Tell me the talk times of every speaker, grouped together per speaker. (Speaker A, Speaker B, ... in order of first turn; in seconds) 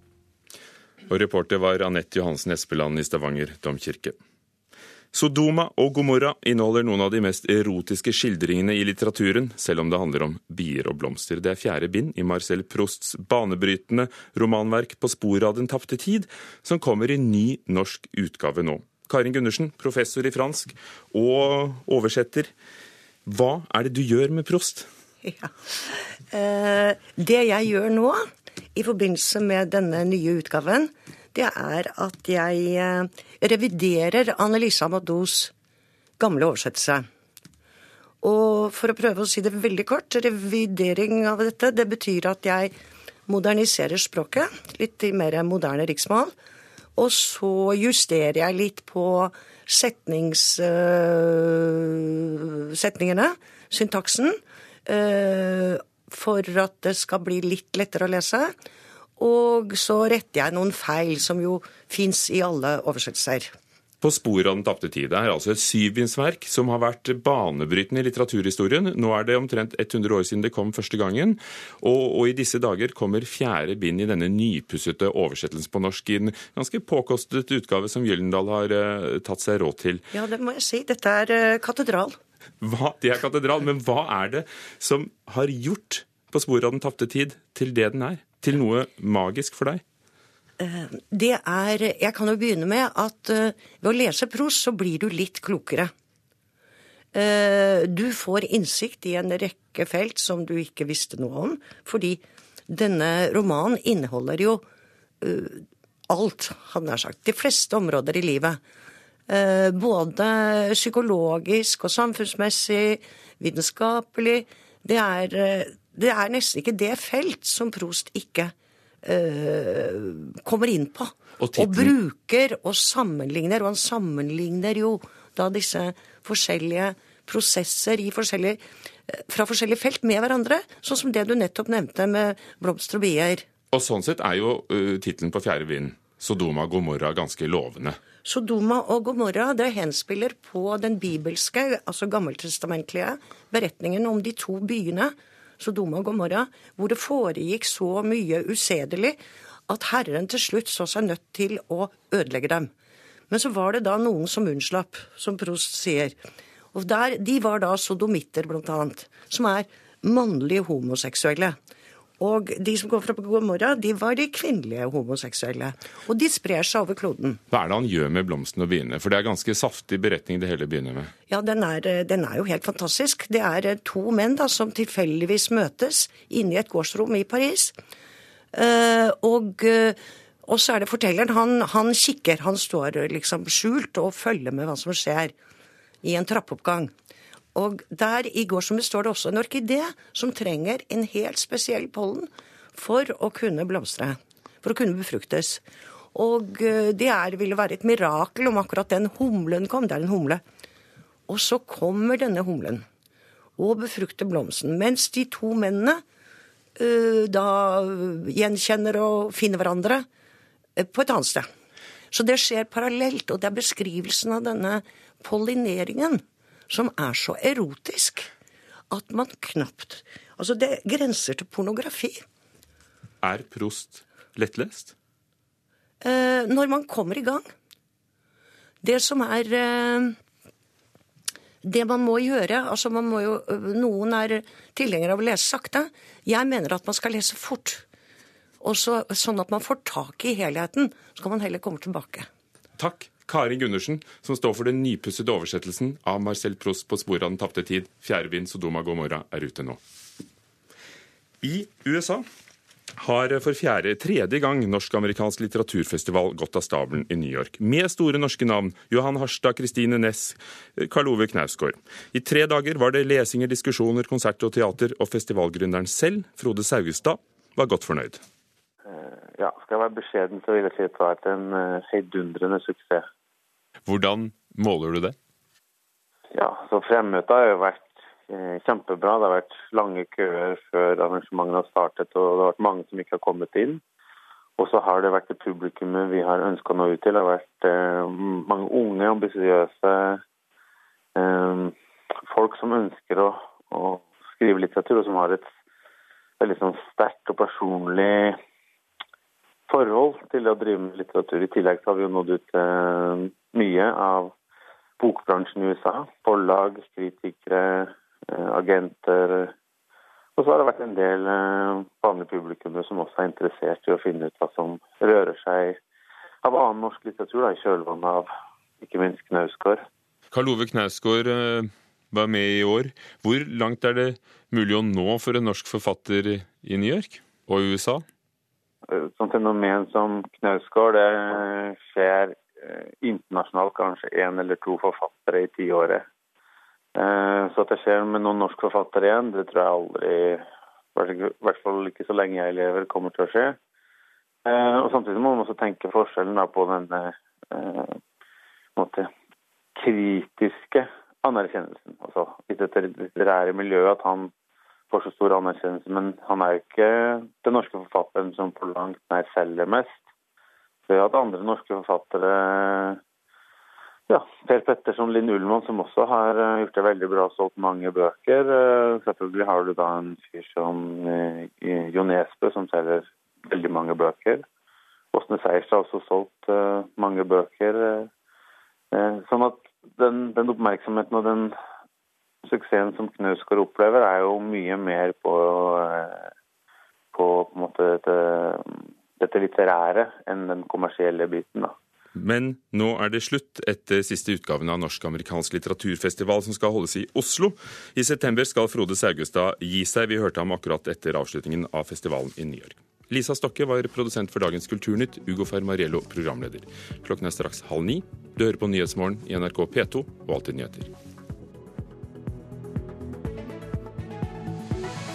Speaker A: 1.1-4.2, 5.1-22.5, 23.2-24.9, 64.0-80.0, 82.6-89.8, 121.4-121.9, 133.7-138.0, 167.5-171.1, 223.2-224.9, 242.8-249.8, 251.4-252.2, 253.0-268.2, 273.9-275.1, 320.3-328.0, 392.1-410.9
Speaker B: 25.2-35.5, 36.2-37.1, 38.2-42.7, 43.3-46.3, 47.0-58.5, 59.2-63.5, 80.1-82.2, 90.6-95.9, 97.1-104.6, 105.2-108.6, 109.3-133.4, 138.2-149.2, 149.7-152.7, 153.3-156.1, 156.7-161.6, 162.2-167.4, 171.3-177.7, 178.5-185.3, 186.0-186.9, 187.5-195.6, 196.1-200.4, 201.3-202.8, 203.6-206.0, 206.8-210.1, 210.8-211.5, 212.1-218.3, 218.9-222.2, 226.0-227.5, 228.8-230.2, 231.6-237.8, 238.6-242.3
Speaker C: 268.9-273.1, 276.3-283.8, 284.6-290.2, 291.1-291.7, 292.3-295.5, 296.4-298.4, 299.7-304.3, 305.0-309.5, 310.4-315.8, 316.4-318.3, 318.8-319.8, 328.9-336.0, 336.9-343.6, 344.4-348.0, 348.8-349.1, 349.8-354.3, 354.9-360.0, 360.9-363.0, 364.1-374.4, 375.1-378.1, 378.9-381.5, 382.4-386.3, 387.1-391.7